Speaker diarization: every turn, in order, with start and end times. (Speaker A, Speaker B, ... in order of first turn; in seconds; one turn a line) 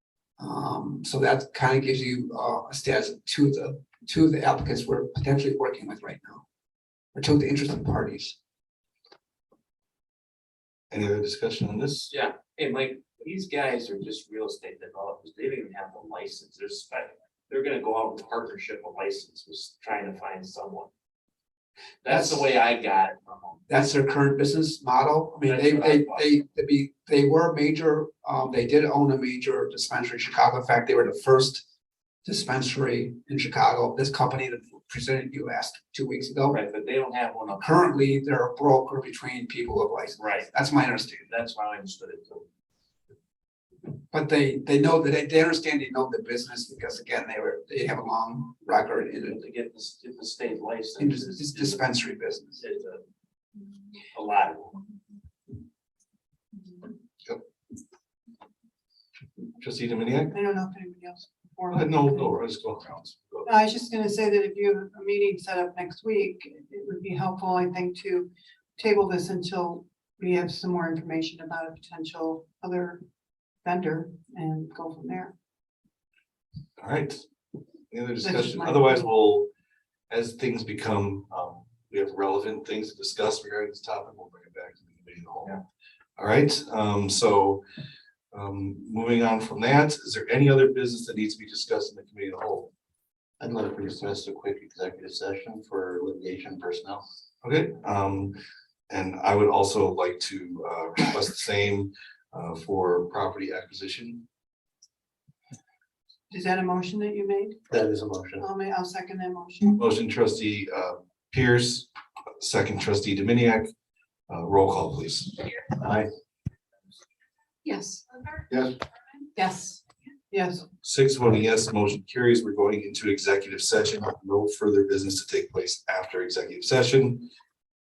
Speaker A: 0.4-6.4
Speaker A: 7.1-8.4
Speaker B: 10.9-12.1
Speaker C: 12.1-20.9
Speaker C: 22.0-23.6
Speaker A: 22.1-22.4
Speaker A: 23.7-31.6
Speaker C: 25.4-26.4
Speaker A: 32.2-36.6
Speaker C: 36.5-37.9
Speaker A: 37.5-41.3
Speaker C: 40.2-40.5
Speaker C: 41.3-42.5
Speaker A: 44.1-49.4
Speaker C: 49.2-51.8
Speaker A: 51.0-52.6
Speaker C: 52.6-53.0
Speaker C: 54.1-54.8
Speaker B: 59.6-60.4
Speaker D: 60.3-62.3
Speaker B: 61.7-63.5
Speaker D: 63.5-73.0
Speaker D: 73.6-75.3
Speaker B: 76.8-77.2
Speaker B: 77.9-79.5
Speaker D: 78.2-79.0
Speaker B: 80.1-85.6
Speaker B: 86.2-87.6
Speaker B: 88.3-92.7
Speaker E: 93.4-97.0
Speaker B: 97.4-98.4
Speaker B: 98.9-104.2
Speaker D: 106.3-107.6
Speaker E: 107.7-108.5
Speaker D: 108.4-109.8
Speaker B: 109.8-111.9
Speaker B: 112.4-113.7
Speaker B: 114.3-115.9
Speaker B: 118.5-118.8
Speaker D: 119.4-119.8
Speaker D: 120.3-120.7
Speaker B: 120.8-127.3